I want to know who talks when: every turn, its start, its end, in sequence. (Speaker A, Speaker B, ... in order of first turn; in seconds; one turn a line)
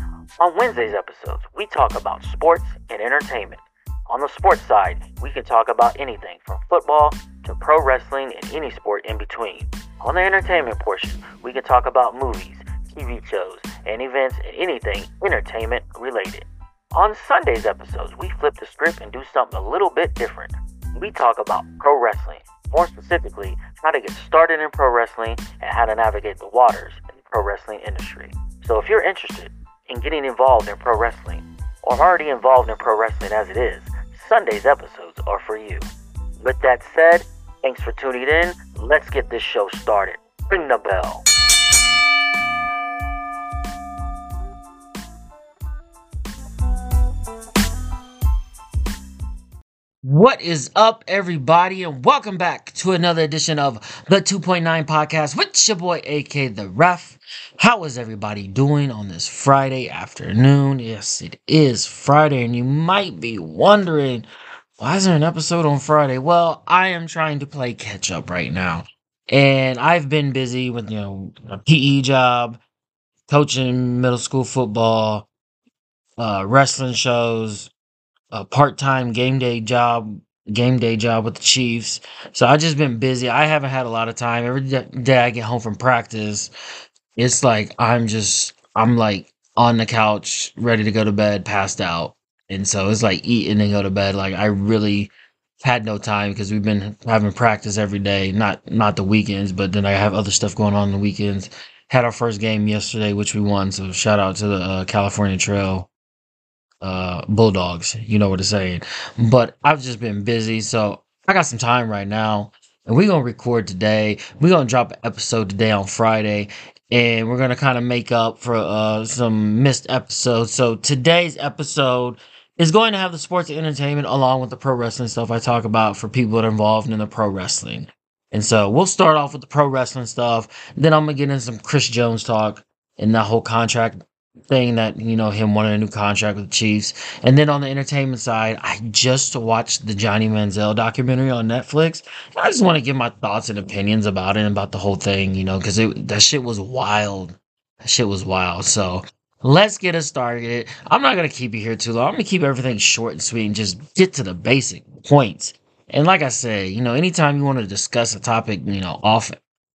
Speaker A: 0.4-35.9
Speaker A: 36.4-41.2
Speaker A: 50.0-64.2
Speaker A: 64.8-72.6
Speaker A: 73.3-75.3
Speaker A: 76.2-77.7
Speaker A: 78.3-86.5
Speaker A: 87.2-95.1
Speaker A: 95.6-105.9
Speaker A: 106.8-159.4